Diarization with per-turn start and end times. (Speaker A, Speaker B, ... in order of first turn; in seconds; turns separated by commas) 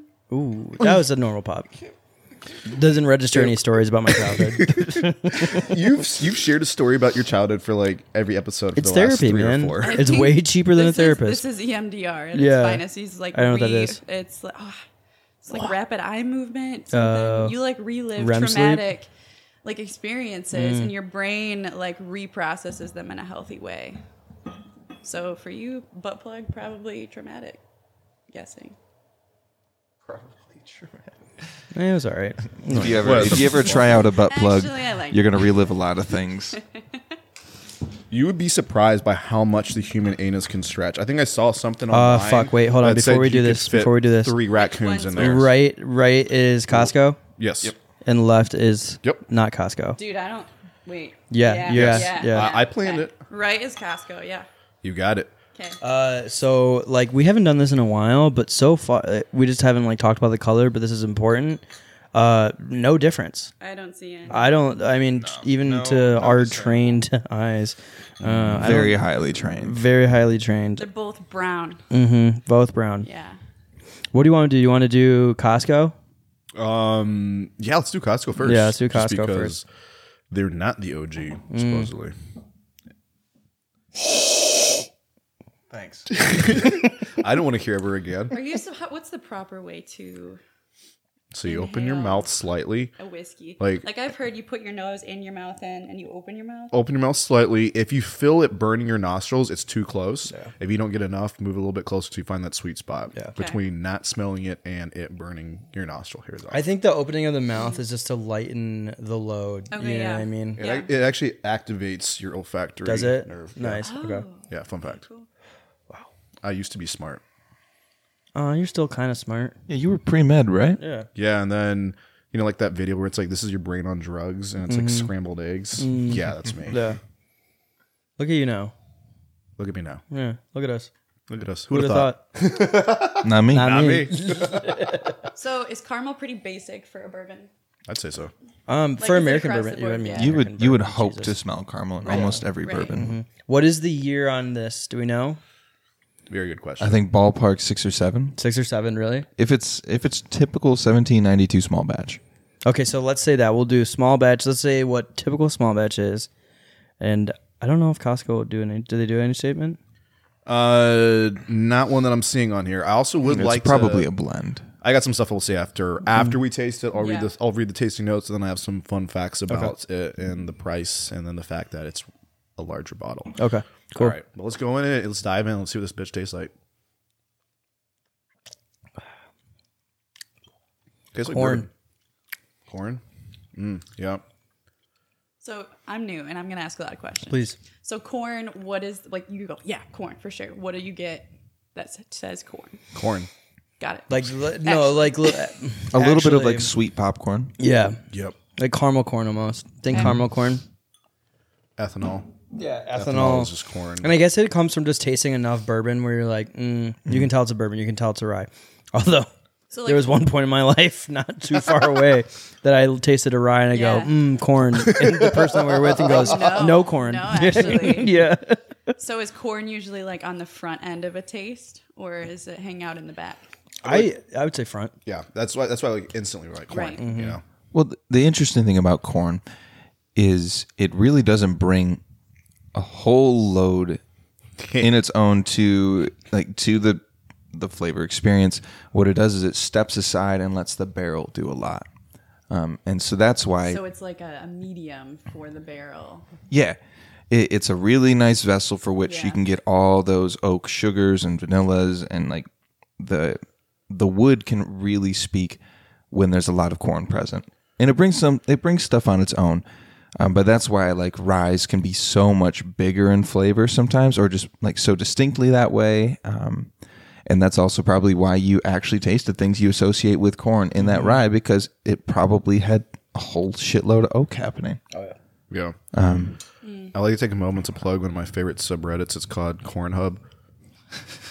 Speaker A: 0.3-1.7, Speaker A: 2.6-5.8, Speaker B: 3.3-10.2, Speaker A: 8.8-11.4, Speaker C: 9.8-14.8, Speaker A: 12.3-14.0, Speaker C: 15.4-19.1, Speaker A: 16.9-17.6, Speaker A: 18.2-18.9, Speaker C: 19.6-24.0, Speaker A: 20.5-20.9, Speaker C: 25.0-27.6, Speaker C: 28.3-28.7, Speaker D: 30.1-31.1, Speaker A: 31.7-33.4, Speaker D: 32.6-36.6, Speaker B: 32.8-33.9, Speaker C: 33.5-35.6, Speaker B: 38.1-45.5, Speaker A: 41.9-44.4, Speaker C: 44.6-45.5, Speaker A: 45.1-47.2, Speaker B: 46.7-47.7, Speaker A: 48.0-50.0, Speaker C: 50.0-54.5, Speaker A: 51.3-52.5, Speaker B: 51.7-53.1, Speaker B: 54.8-55.3, Speaker A: 55.8-61.6, Speaker A: 62.1-63.5, Speaker C: 63.6-64.5, Speaker A: 64.3-70.9, Speaker D: 65.2-66.8, Speaker D: 68.2-69.8, Speaker C: 70.8-71.8, Speaker A: 71.9-73.1, Speaker C: 73.0-73.4, Speaker A: 74.1-75.9, Speaker B: 76.5-79.6, Speaker A: 78.4-79.5, Speaker B: 80.3-82.1, Speaker A: 81.5-81.9, Speaker D: 85.7-86.2, Speaker B: 86.1-88.4, Speaker C: 88.3-90.4, Speaker B: 91.3-92.9, Speaker C: 91.4-92.3, Speaker C: 93.0-96.7, Speaker B: 93.6-93.8, Speaker B: 96.7-106.6, Speaker A: 106.5-110.6, Speaker C: 109.7-110.9, Speaker B: 110.5-113.9, Speaker A: 112.8-114.2, Speaker C: 113.8-115.3, Speaker B: 114.5-115.0, Speaker B: 116.4-117.2, Speaker A: 118.3-119.5, Speaker D: 119.7-120.8, Speaker A: 120.8-121.1, Speaker B: 121.1-126.8, Speaker A: 124.7-125.1, Speaker A: 125.8-127.0, Speaker A: 128.2-128.7, Speaker B: 129.6-130.0, Speaker A: 130.1-130.9, Speaker B: 131.3-135.1, Speaker A: 131.7-132.2, Speaker D: 133.2-133.8, Speaker A: 133.5-135.2, Speaker C: 135.3-137.5, Speaker B: 137.9-138.3, Speaker A: 138.7-141.3, Speaker C: 139.0-140.4, Speaker D: 140.1-143.1, Speaker C: 142.0-142.9, Speaker A: 142.1-145.4, Speaker B: 146.3-147.0, Speaker D: 146.8-148.4, Speaker A: 148.4-149.3, Speaker D: 149.4-152.2, Speaker A: 152.6-156.3, Speaker A: 157.0-159.8, Speaker B: 160.4-164.1, Speaker D: 163.2-164.7, Speaker B: 164.8-173.4, Speaker C: 166.9-167.3, Speaker A: 173.4-174.1, Speaker B: 173.9-176.5, Speaker B: 181.1-181.7, Speaker A: 181.2-181.7, Speaker B: 182.7-183.0, Speaker B: 183.6-184.2, Speaker C: 185.4-192.8, Speaker A: 187.3-187.6, Speaker B: 192.9-193.3, Speaker C: 193.8-195.4, Speaker A: 194.1-196.7, Speaker D: 195.9-197.5, Speaker A: 197.6-198.0, Speaker B: 198.1-198.3, Speaker A: 198.6-200.6, Speaker B: 201.8-202.3, Speaker A: 202.5-209.3, Speaker B: 202.9-204.1, Speaker C: 209.7-210.2, Speaker A: 209.8-218.9, Speaker C: 213.7-214.3, Speaker B: 214.7-216.8, Speaker C: 216.1-218.2, Speaker C: 219.0-223.4, Speaker B: 223.8-224.1, Speaker A: 223.8-224.9, Speaker B: 225.0-227.4, Speaker C: 226.7-227.0, Speaker A: 227.0-227.4, Speaker D: 227.7-229.4, Speaker D: 230.1-232.0, Speaker D: 232.7-234.0, Speaker B: 234.6-234.9, Speaker D: 234.8-241.8, Speaker D: 242.5-243.8, Speaker C: 243.6-246.2, Speaker D: 246.5-246.8, Speaker D: 247.3-252.5, Speaker C: 249.0-249.4, Speaker D: 253.0-255.6, Speaker D: 256.1-259.6, Speaker D: 260.2-266.7, Speaker D: 267.2-274.8, Speaker A: 270.9-271.2, Speaker B: 275.5-276.2, Speaker D: 275.9-276.4, Speaker C: 276.6-276.9, Speaker B: 276.9-280.2